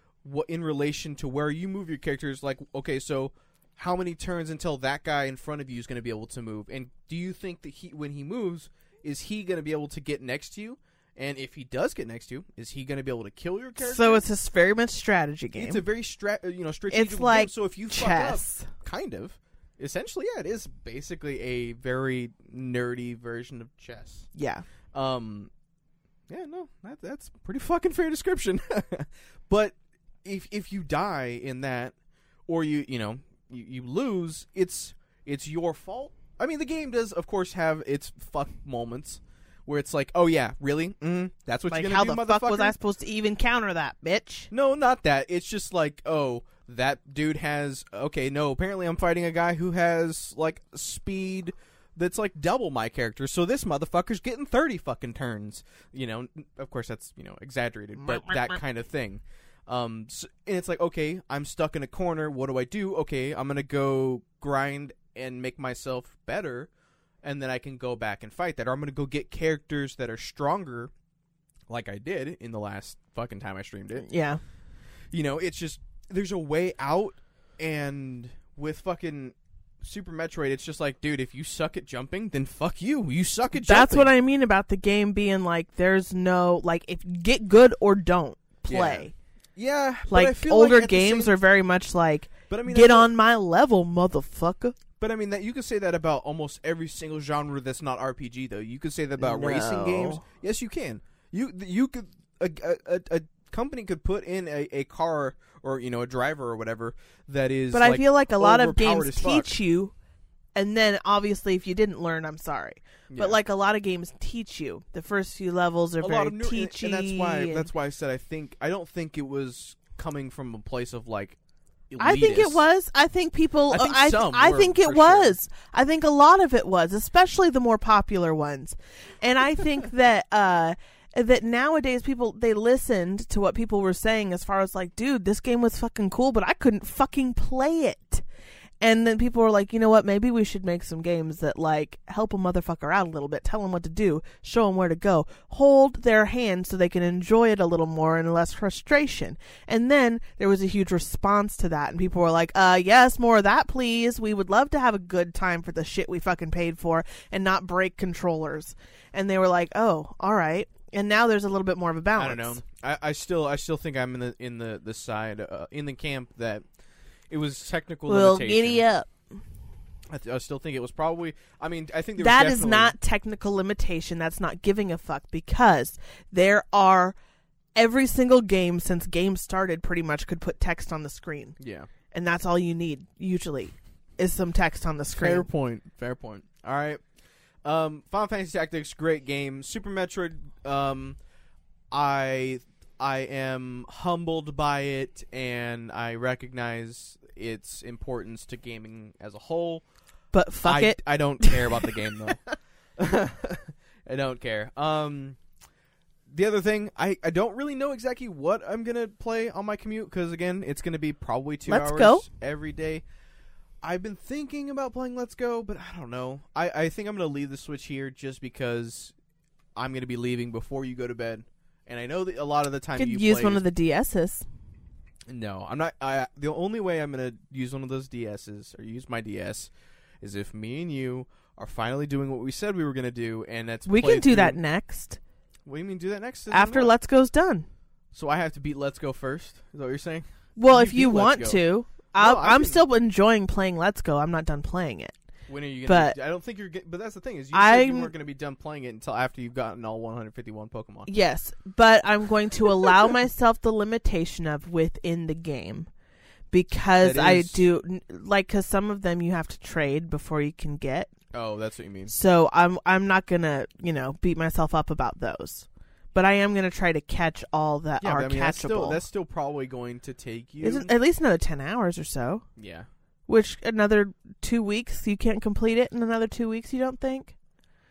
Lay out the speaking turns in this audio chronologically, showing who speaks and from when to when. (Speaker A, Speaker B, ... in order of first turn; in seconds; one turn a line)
Speaker A: 0.2-14.2
Speaker B: 13.8-15.8
Speaker A: 15.5-24.3
Speaker B: 16.9-18.7
Speaker B: 24.3-24.6
Speaker A: 24.9-25.5
Speaker A: 26.3-31.9
Speaker A: 32.5-42.7
Speaker B: 41.7-44.5
Speaker A: 44.5-66.7
Speaker B: 58.0-58.6
Speaker A: 67.2-70.9
Speaker A: 71.7-74.1
Speaker B: 74.0-74.4
Speaker A: 75.1-84.1
Speaker B: 83.5-89.1
Speaker A: 88.7-91.3
Speaker B: 90.1-94.8
Speaker A: 92.5-93.1
Speaker A: 95.0-109.5
Speaker B: 99.2-100.2
Speaker B: 107.7-109.9
Speaker B: 110.5-117.7
Speaker A: 113.1-113.4
Speaker A: 116.0-121.4
Speaker A: 121.9-122.6
Speaker B: 122.0-138.2
Speaker A: 123.7-125.3
Speaker B: 138.8-162.6
Speaker A: 162.2-166.6
Speaker A: 167.3-168.8
Speaker B: 168.1-169.2
Speaker A: 170.1-172.9
Speaker B: 172.2-177.2
Speaker B: 177.7-181.6
Speaker A: 181.6-181.9
Speaker B: 182.1-185.5
Speaker A: 185.1-187.0
Speaker A: 187.6-191.2
Speaker A: 191.9-199.8
Speaker B: 200.3-202.3
Speaker A: 200.6-202.4
Speaker A: 203.0-205.4
Speaker A: 206.3-213.0
Speaker B: 211.7-212.2
Speaker A: 213.8-219.1
Speaker A: 219.7-223.6
Speaker B: 222.9-224.4
Speaker A: 225.3-234.6
Speaker B: 233.9-235.2
Speaker A: 235.7-236.9
Speaker B: 236.5-237.7
Speaker A: 238.1-241.6
Speaker B: 240.6-245.1
Speaker A: 242.1-242.8
Speaker A: 245.5-251.1
Speaker B: 245.8-246.2
Speaker B: 247.5-248.1
Speaker B: 251.1-255.9
Speaker B: 256.5-261.1
Speaker A: 257.0-257.6
Speaker A: 261.3-262.1
Speaker B: 262.1-269.0
Speaker A: 268.0-270.9
Speaker B: 270.6-272.4
Speaker A: 272.6-272.9
Speaker B: 273.3-277.3